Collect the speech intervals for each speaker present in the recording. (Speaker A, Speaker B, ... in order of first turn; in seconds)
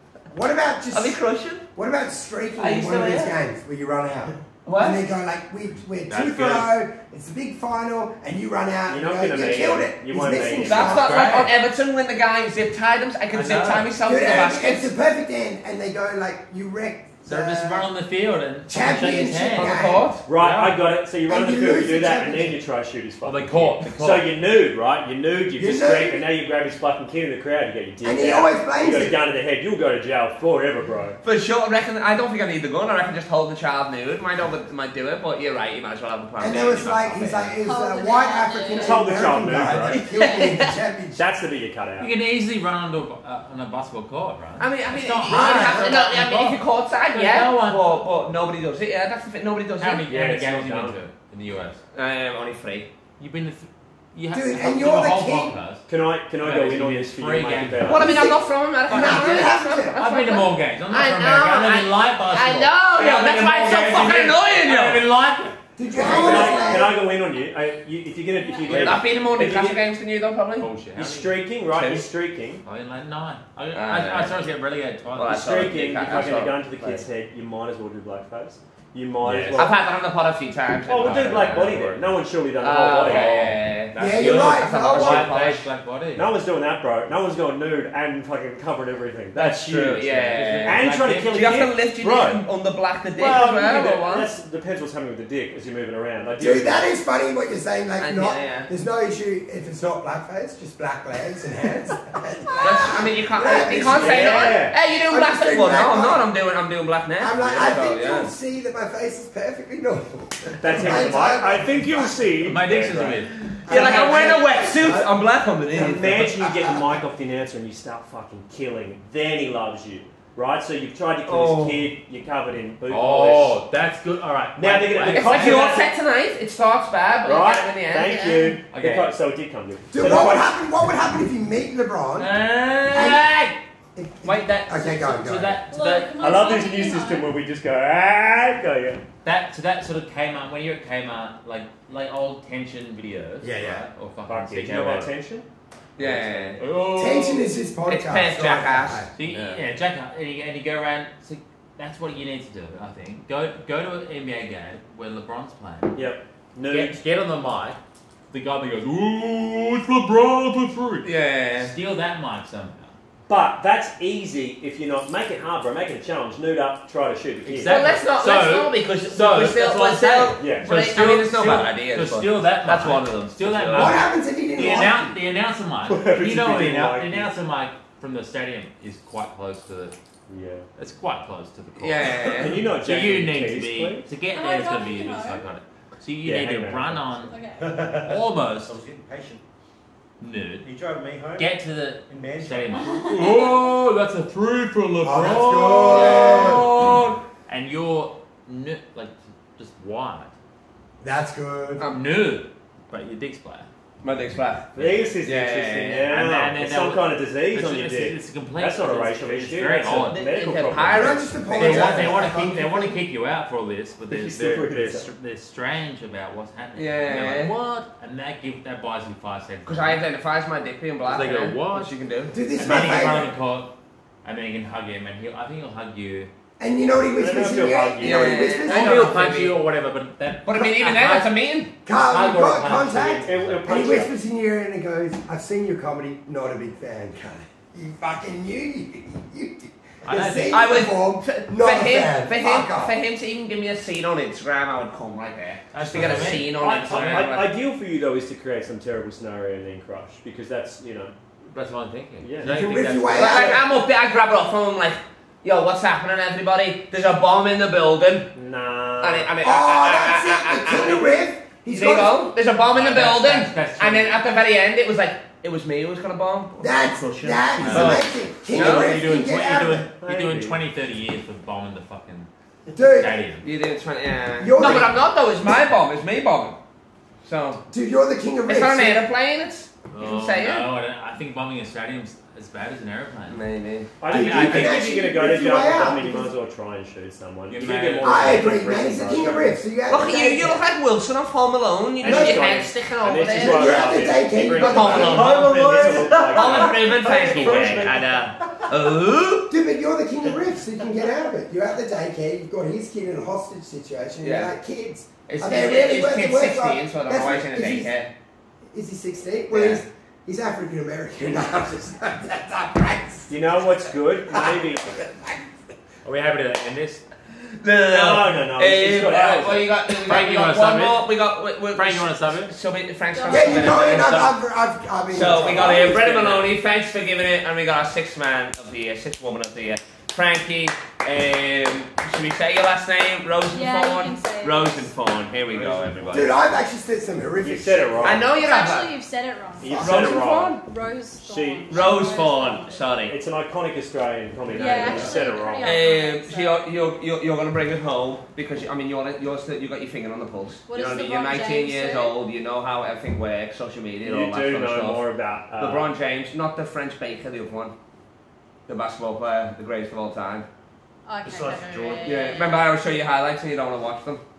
Speaker A: 0.3-1.2, 1.8-11.3, 14.0-17.9, 18.7-20.1, 21.3-22.6, 25.6-26.2, 28.0-29.2, 36.4-41.2, 45.3-45.9, 54.3-55.5, 57.9-59.9, 65.8-67.0, 84.0-85.3, 96.4-106.2, 107.2-112.2, 113.6-115.1, 116.4-116.8, 129.9-132.3, 132.9-133.3, 133.9-135.6, 143.4-143.8, 146.9-149.1, 173.7-175.2, 195.0-196.7, 201.0-201.8, 210.9-213.0, 222.3-223.3, 226.6-229.3, 231.8-242.9, 252.4-253.6, 259.4-262.3, 266.6-269.9, 272.7-273.2, 274.4-275.0, 277.7-279.0, 284.1-286.3, 288.0-290.6, 292.0-292.5, 293.2-295.4, 299.5-307.9, 308.7-313.3, 323.3-326.3, 336.1-338.3, 339.7-340.0
Speaker B: 0.9-1.6, 2.6-3.3, 4.6-5.1, 10.6-14.9, 19.5-20.2, 31.2-37.5, 39.9-40.7, 44.6-50.0, 51.9-52.9, 57.8-65.0, 68.6-70.7, 71.7-72.0, 73.7-74.4, 75.1-77.0, 79.5-82.0, 82.6-85.7, 89.5-94.3, 98.0-98.7, 102.6-108.3, 113.7-116.3, 121.2-121.8, 125.1-128.5, 146.0-146.6, 147.9-149.6, 161.0-161.7, 167.7-174.0, 181.8-182.6, 195.8-197.2, 204.0-206.1, 210.1-212.1, 216.8-217.5, 219.7-222.3, 228.0-229.6, 230.4-231.7, 240.5-247.5, 253.1-258.3, 259.0-261.1, 261.7-269.0, 273.4-276.6, 277.2-277.6, 278.5-280.7, 283.3-283.9, 289.9-299.5, 304.2-304.5, 305.3-308.1, 309.5-309.8, 317.6-324.3, 325.1-336.4, 338.0-338.9, 339.7-340.6, 341.7-343.1, 345.6-355.0, 355.6-357.7, 358.7-360.4, 362.0-364.2
Speaker C: 6.1-6.7, 10.8-11.5, 13.3-13.9, 17.2-20.8, 23.2-24.3, 42.0-46.6, 47.1-48.0, 49.8-51.8, 53.2-55.9, 56.4-58.0, 58.9-65.5, 70.6-71.4, 72.6-76.3, 79.2-79.7, 81.0-82.0, 83.0-86.3, 89.3-91.6, 112.4-114.3, 122.9-125.8, 128.7-129.1, 132.2-133.6, 134.2-136.2, 139.2-145.1, 146.6-147.5, 149.2-156.0, 156.7-157.8, 158.3-162.9, 167.4-179.9, 180.8-187.3, 188.0-188.8, 190.2-190.7, 191.3-200.3, 201.9-203.7, 204.8-205.1, 206.1-210.3, 211.5-220.0, 221.1-221.9, 222.5-223.7, 224.2-226.3, 228.6-231.3, 231.9-234.0, 240.1-240.6, 245.7-247.3, 251.5-253.6, 262.7-264.2, 267.6-273.4, 279.9-283.4, 284.1-284.9, 287.5-288.6, 296.3-298.0, 316.0-317.0, 319.9-321.0, 321.8-322.5, 323.5-324.3, 326.0-326.4
Speaker D: 8.9-11.0, 20.2-31.2, 38.8-40.0, 41.1-42.1, 50.1-51.0, 55.9-58.1, 66.0-69.8, 70.9-72.6, 75.3-79.7, 80.9-83.4, 86.2-92.4, 93.2-96.9, 103.7-104.8, 110.6-113.2, 115.7-123.6, 124.5-125.9, 127.2-130.5, 136.2-139.0, 144.3-145.4, 146.0-146.6, 155.9-157.0, 163.3-167.8, 170.4-170.7, 175.9-177.3, 180.3-180.7, 182.2-184.1, 186.2-187.1, 204.7-212.0, 214.1-215.1, 227.2-228.5, 233.2-234.1, 246.4-251.1, 252.2-252.8, 258.3-259.3, 270.0-270.6, 284.0-289.6, 292.0-297.9, 313.3-315.0, 317.8-319.7, 337.4-338.3, 339.6-340.6, 341.2-341.8, 343.1-345.7, 354.0-355.9
Speaker E: 37.6-39.1, 66.1-66.8, 68.4-68.9, 135.7-137.3, 184.3-185.4, 187.2-187.8, 192.7-193.6, 323.1-324.0, 333.5-334.9, 338.3-343.0, 344.5-346.6, 350.7-352.1, 361.1-362.7
Speaker F: 187.6-189.4, 190.6-191.5, 192.1-192.8, 295.4-296.3, 335.5-336.2, 361.2-362.2